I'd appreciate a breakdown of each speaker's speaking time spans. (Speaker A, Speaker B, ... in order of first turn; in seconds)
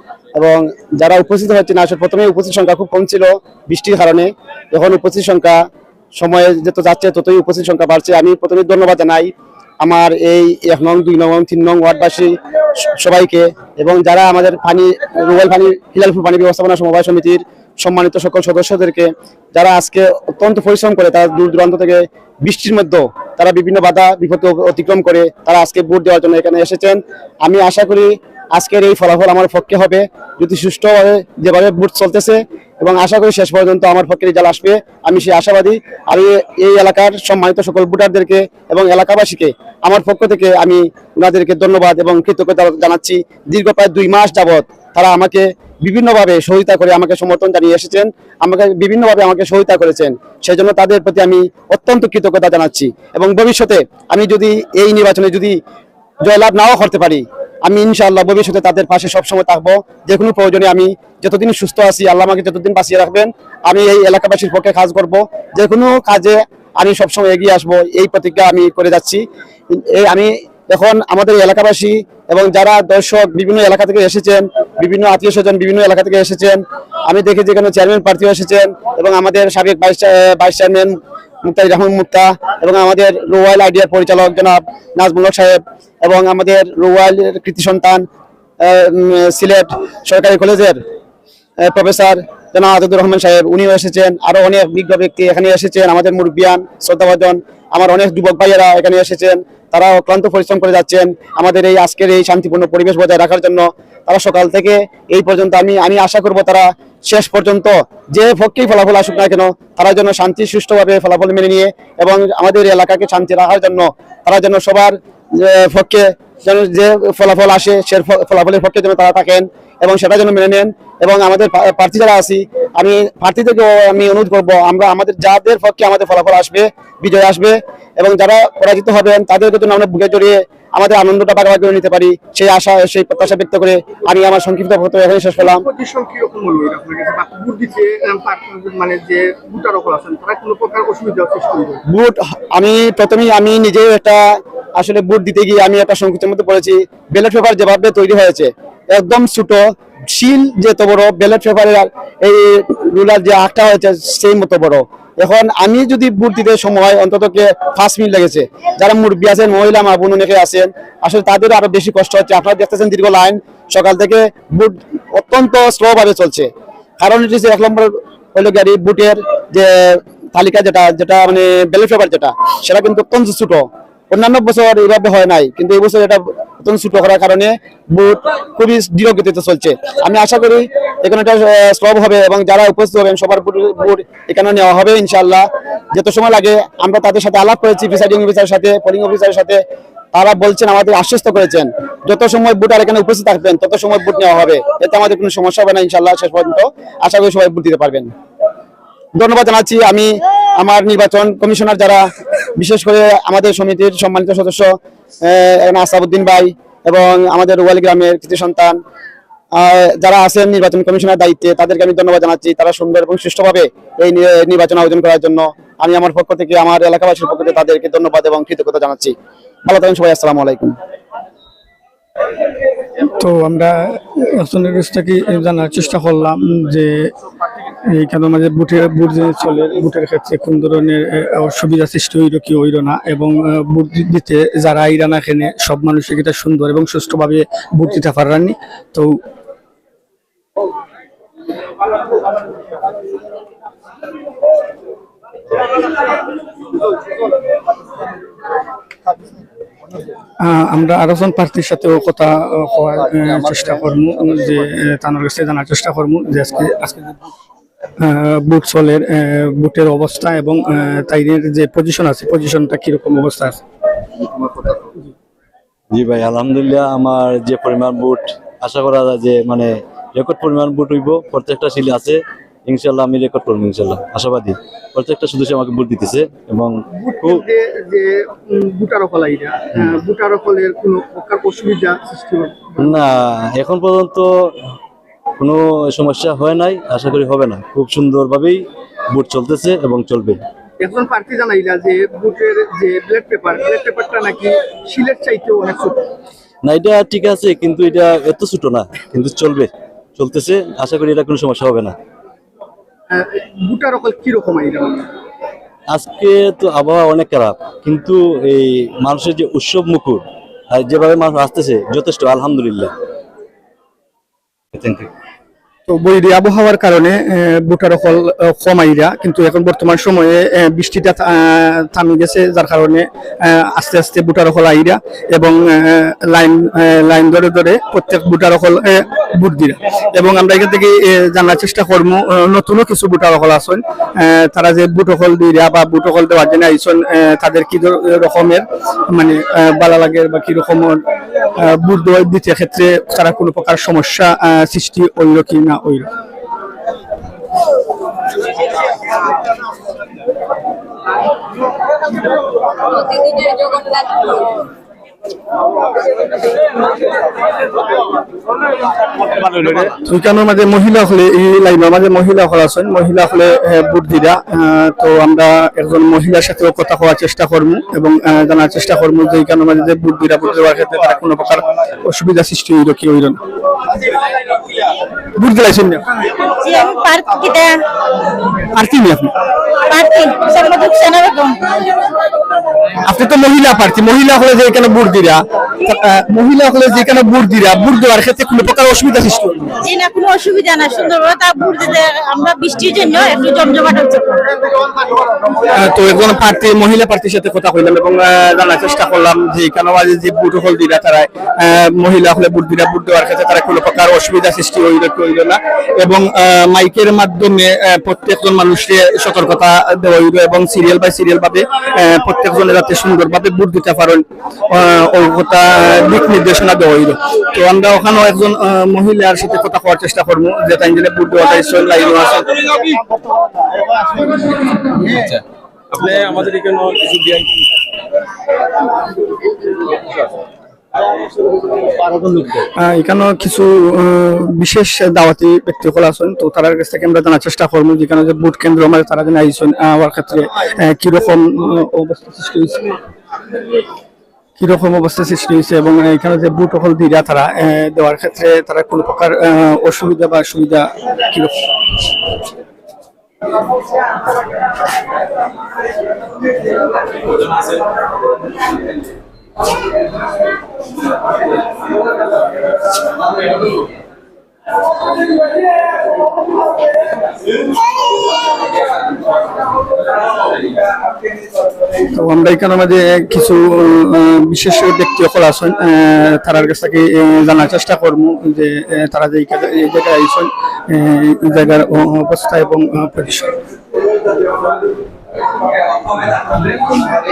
Speaker A: 0.3-55.6, 56.2-88.1, 88.6-90.8, 91.6-135.7, 141.9-189.6, 190.1-198.1, 199.2-208.8, 209.6-219.1, 219.7-220.8
Speaker B: 135.6-141.8, 277.0-282.9, 290.8-296.1, 303.1-305.1
Speaker C: 223.2-227.1, 227.9-239.2, 250.4-257.2, 258.0-263.6, 315.9-341.0, 341.6-346.1, 360.0-373.4, 375.4-376.1, 378.7-379.3, 383.1-389.8, 395.7-422.5, 432.8-442.9, 444.6-451.6, 472.1-483.6
Speaker D: 265.9-277.4, 282.8-284.6, 285.4-290.4, 296.6-301.9, 305.9-312.9, 314.7-315.1
Speaker E: 376.5-377.7, 379.9-382.0, 389.8-394.6
Speaker F: 422.6-423.0, 425.9-427.7